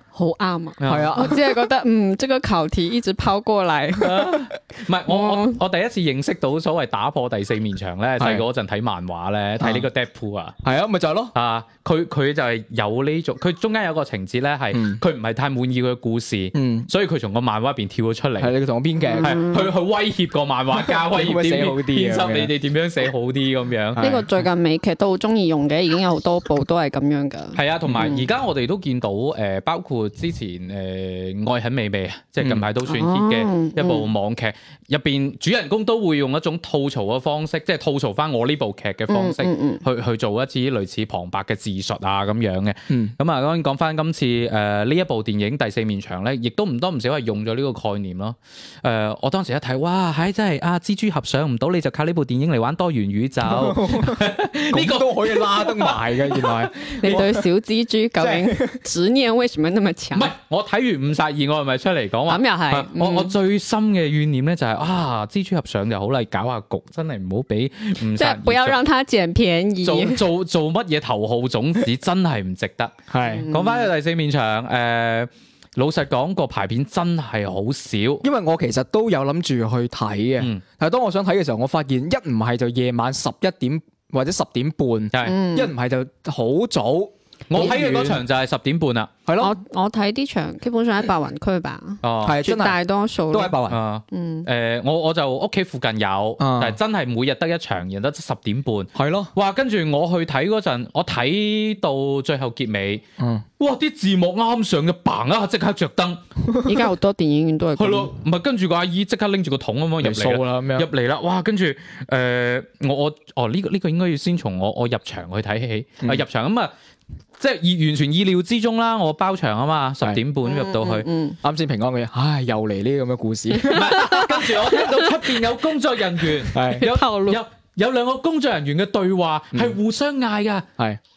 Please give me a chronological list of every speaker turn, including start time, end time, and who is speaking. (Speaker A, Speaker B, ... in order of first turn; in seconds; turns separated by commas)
Speaker A: 0.1-4.2, Speaker B: 0.8-1.2, Speaker C: 0.8-1.4, Speaker B: 4.0-10.6, Speaker A: 5.1-5.6, Speaker C: 8.2-8.4, Speaker C: 9.6-9.9, Speaker C: 10.6-11.3, Speaker B: 11.3-18.5, Speaker C: 14.7-15.0, Speaker C: 16.5-16.9, Speaker C: 18.4-19.4, Speaker A: 19.0-19.7, Speaker B: 19.2-24.0, Speaker C: 20.8-22.5, Speaker C: 23.9-24.3, Speaker A: 24.0-28.2, Speaker B: 27.6-57.2, Speaker C: 27.9-28.2, Speaker A: 32.9-34.1, Speaker A: 39.1-39.8, Speaker C: 42.9-43.1, Speaker C: 53.5-57.4, Speaker A: 57.0-60.3, Speaker C: 58.2-58.8, Speaker B: 60.1-68.8, Speaker A: 62.3-63.3, Speaker A: 68.2-70.2, Speaker B: 69.8-73.0, Speaker C: 73.1-73.5, Speaker A: 73.3-73.9, Speaker B: 73.5-78.2, Speaker C: 78.2-88.2, Speaker A: 85.2-85.7, Speaker B: 87.5-89.1, Speaker C: 89.3-89.5, Speaker A: 89.4-93.5, Speaker B: 92.0-92.4, Speaker C: 92.2-92.8, Speaker C: 93.3-93.8, Speaker B: 93.7-103.0, Speaker A: 94.1-94.5, Speaker C: 96.4-96.8, Speaker C: 99.0-99.3, Speaker C: 103.2-103.5, Speaker B: 103.6-106.2, Speaker A: 106.7-108.1, Speaker B: 107.8-116.7, Speaker C: 110.0-110.9, Speaker B: 117.4-121.1, Speaker A: 120.5-121.4, Speaker C: 121.4-124.2, Speaker B: 123.7-130.7, Speaker A: 123.7-124.2, Speaker C: 126.5-126.9, Speaker A: 126.8-127.4, Speaker C: 129.5-129.8